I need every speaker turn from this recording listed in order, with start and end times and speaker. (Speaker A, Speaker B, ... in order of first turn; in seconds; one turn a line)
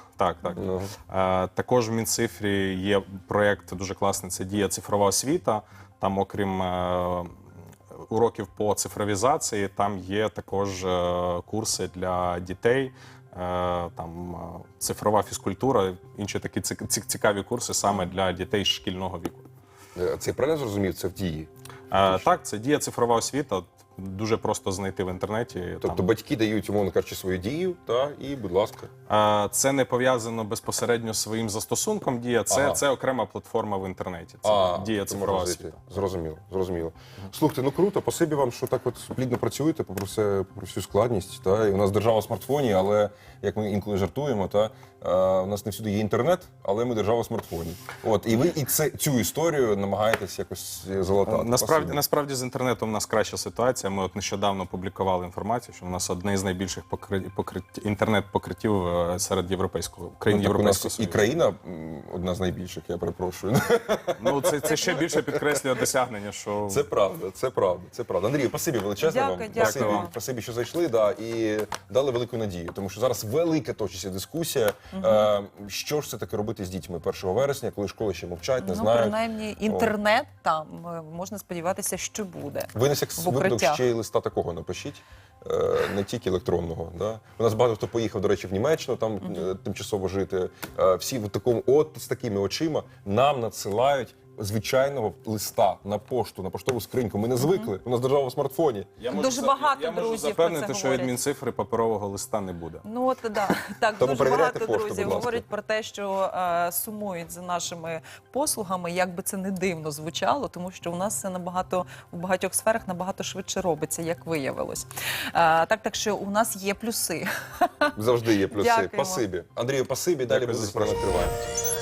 Speaker A: 0.2-7.3
Speaker B: 0.5-0.9
Speaker A: 7.9-19.4
Speaker B: 19.9-22.2
Speaker A: 21.9-26.1
Speaker B: 25.8-28.9
Speaker A: 29.1-35.8
Speaker B: 32.5-32.8
Speaker B: 34.4-52.0
Speaker A: 51.2-61.3
Speaker B: 60.3-65.5
Speaker A: 64.2-66.8
Speaker B: 66.7-79.9
Speaker C: 69.0-70.1
Speaker A: 69.5-70.1
Speaker C: 74.9-75.3
Speaker C: 78.6-83.8
Speaker B: 82.7-98.9
Speaker C: 97.4-97.7
Speaker A: 99.0-102.8
Speaker C: 99.1-101.2
Speaker C: 102.8-118.0
Speaker B: 104.0-105.5
Speaker B: 118.0-121.5
Speaker C: 118.5-119.2
Speaker A: 120.3-121.0